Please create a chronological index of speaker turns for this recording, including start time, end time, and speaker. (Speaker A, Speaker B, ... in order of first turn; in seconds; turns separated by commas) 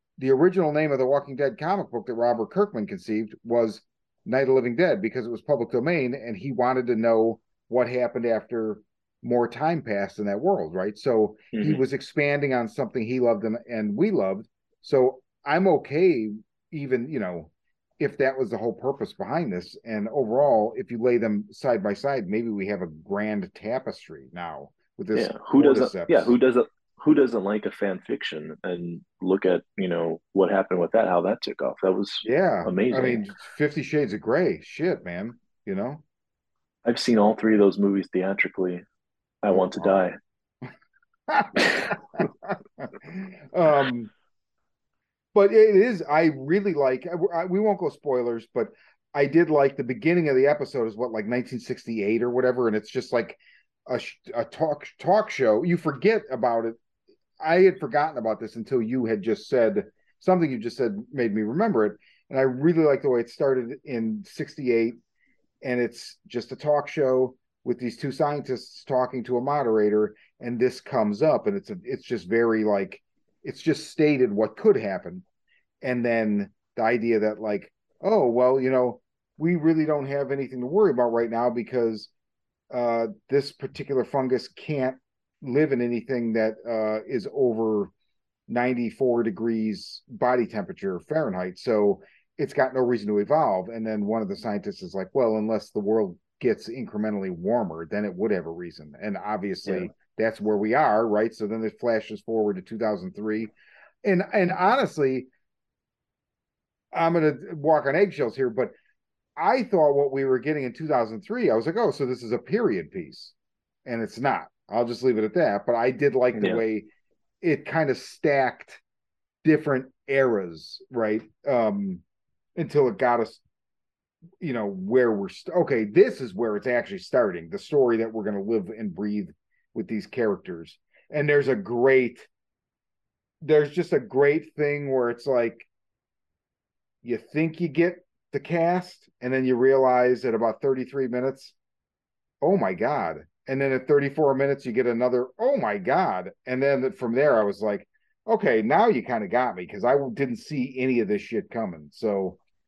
Speaker A: 0.2-26.3, Speaker B: 11.5-11.8, Speaker B: 25.1-33.2, Speaker A: 32.2-36.0, Speaker B: 36.9-38.8, Speaker B: 39.4-40.1, Speaker A: 39.5-40.0, Speaker A: 41.3-44.1, Speaker A: 45.3-56.8, Speaker A: 57.4-65.0, Speaker A: 65.6-75.2, Speaker A: 75.8-82.1, Speaker A: 82.7-87.9, Speaker A: 88.5-103.5, Speaker B: 99.7-99.9, Speaker A: 104.0-105.3, Speaker A: 106.9-108.8, Speaker A: 109.4-113.3, Speaker A: 113.8-116.9, Speaker A: 117.4-118.8, Speaker A: 119.4-122.0, Speaker A: 122.6-123.4, Speaker A: 124.4-132.3, Speaker A: 133.4-135.7, Speaker A: 137.0-141.6, Speaker A: 142.4-152.4